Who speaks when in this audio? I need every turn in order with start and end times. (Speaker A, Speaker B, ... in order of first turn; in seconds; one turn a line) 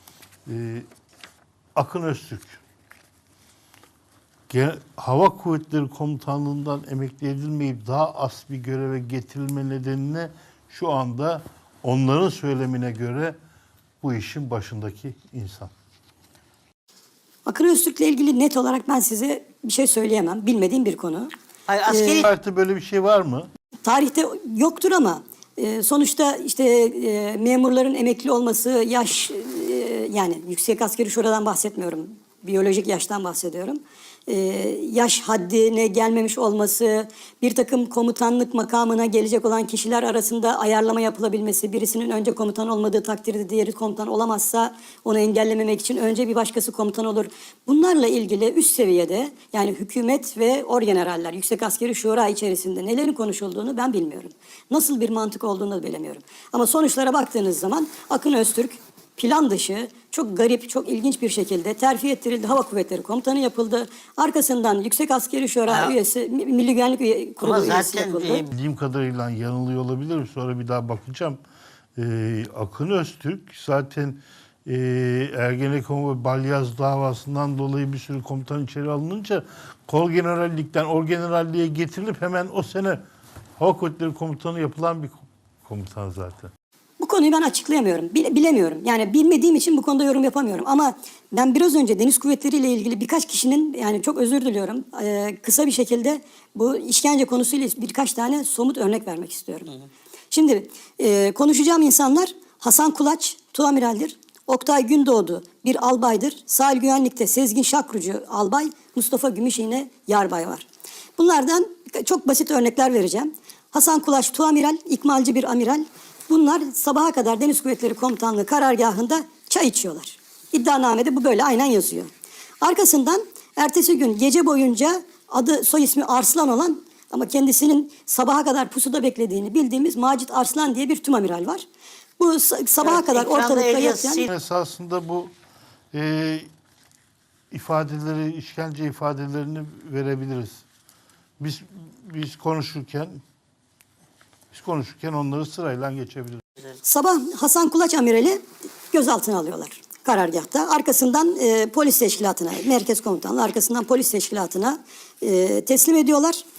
Speaker A: 0.5-0.9
Speaker A: 1.7-2.6
Speaker A: 4.5-13.4
Speaker A: 14.0-15.7
Speaker B: 17.4-21.3
Speaker C: 21.7-22.3
Speaker B: 21.8-22.3
Speaker A: 22.1-23.5
Speaker B: 23.8-68.5
Speaker C: 65.7-65.9
Speaker C: 67.4-68.5
Speaker A: 68.5-71.4
Speaker A: 72.0-83.0
Speaker A: 83.6-86.5
Speaker B: 87.0-99.8
Speaker B: 100.3-122.1
Speaker B: 122.6-131.6
Speaker B: 132.2-134.3
Speaker C: 132.8-134.3
Speaker A: 134.3-135.3
Speaker A: 135.9-136.5
Speaker A: 137.5-140.6
Speaker A: 141.4-143.2
Speaker A: 144.5-146.4
Speaker B: 146.8-156.4